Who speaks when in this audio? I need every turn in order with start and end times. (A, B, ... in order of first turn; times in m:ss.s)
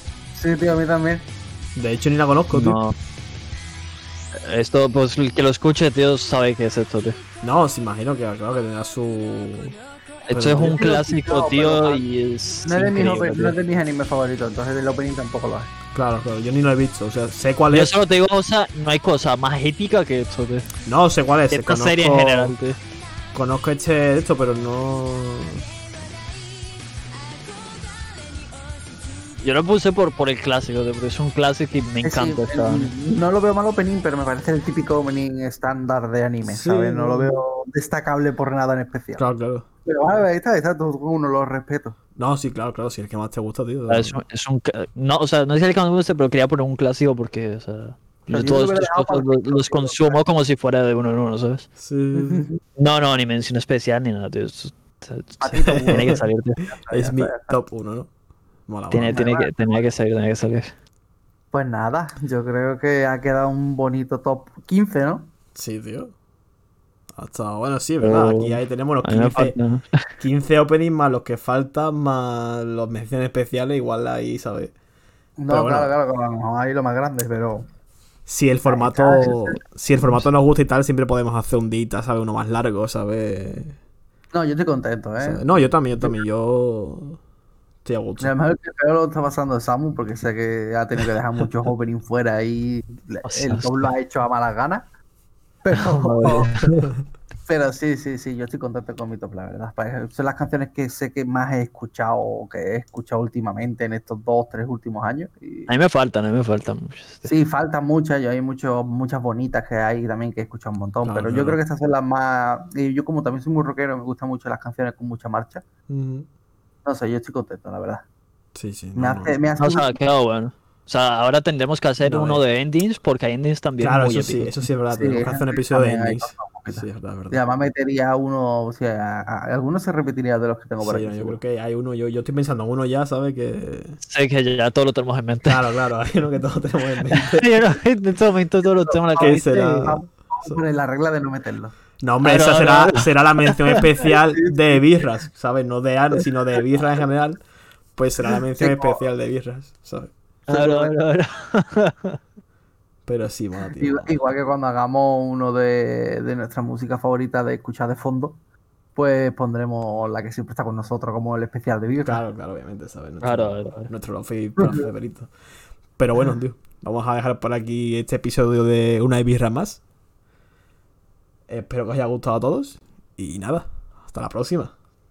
0:00.4-0:01.3 A
0:01.8-0:02.8 B
0:02.5-0:03.0 C
0:04.4-0:07.2 C
0:07.4-0:09.8 B
0:10.3-0:13.6 C
0:10.3-0:10.8 B
0:10.6-0:12.0 A
0:12.6-0:15.7 A
0:15.9-0:18.0 B
0:17.7-0:20.7 C
0:20.9-0:22.6 B
0:21.5-0:22.8 C
0:23.3-0:25.6 B
0:29.4-0:32.9 C
0:32.0-0:39.2 A
0:36.4-0:37.4 B
0:39.2-0:39.7 B
0:39.9-0:42.0 A
0:42.2-0:44.2 B
0:43.9-0:51.7 C
0:48.3-0:50.2 A
0:51.8-0:52.5 B
0:52.1-0:52.6 A
0:52.8-0:56.6 C
0:55.4-0:57.5 A
0:55.6-0:56.2 B
0:56.9-0:58.1 B
0:58.7-0:59.2 B
0:58.9-1:00.7 C
0:59.1-0:59.5 A
1:01.5-1:05.3 A
1:05.6-1:06.1 B
1:07.1-1:09.6 B
1:08.0-1:10.1 C
1:10.2-1:14.7 B
1:15.4-1:17.7 A
1:15.5-1:15.9 B
1:18.3-1:23.8 B
1:18.7-1:19.6 A
1:24.3-1:25.4 A
1:25.2-1:27.2 B
1:27.8-1:28.3 B
1:28.2-1:34.9 A
1:33.2-1:33.9 C
1:35.6-1:36.5 A
1:35.7-1:36.9 C
1:37.5-1:45.7 A
1:45.7-1:47.3 C
1:47.3-1:55.6 A
1:51.0-1:51.6 B
1:55.9-1:56.3 B
1:56.8-1:58.1 A
1:58.6-1:59.4 B
1:59.0-2:00.0 A
1:59.6-2:04.6 C
2:02.0-2:02.4 B
2:03.8-2:07.4 B
2:04.9-2:11.4 A
2:10.8-2:14.0 B
2:14.0-2:15.6 C
2:15.4-2:17.5 B
2:17.1-2:20.0 C
2:18.9-2:21.8 A
2:19.2-2:20.6 B
2:22.0-2:27.4 B
2:22.2-2:23.8 C
2:24.1-2:24.8 A
2:28.0-2:30.1 B
2:28.6-2:29.0 A
2:30.5-2:32.2 C
2:30.5-2:31.0 A
2:33.1-2:34.2 B
2:33.8-2:38.4 A
2:39.0-2:42.2 A
2:42.0-2:45.3 B
2:43.2-2:43.9 C
2:44.6-2:44.9 A
2:46.0-2:49.8 B
2:51.5-2:54.7 B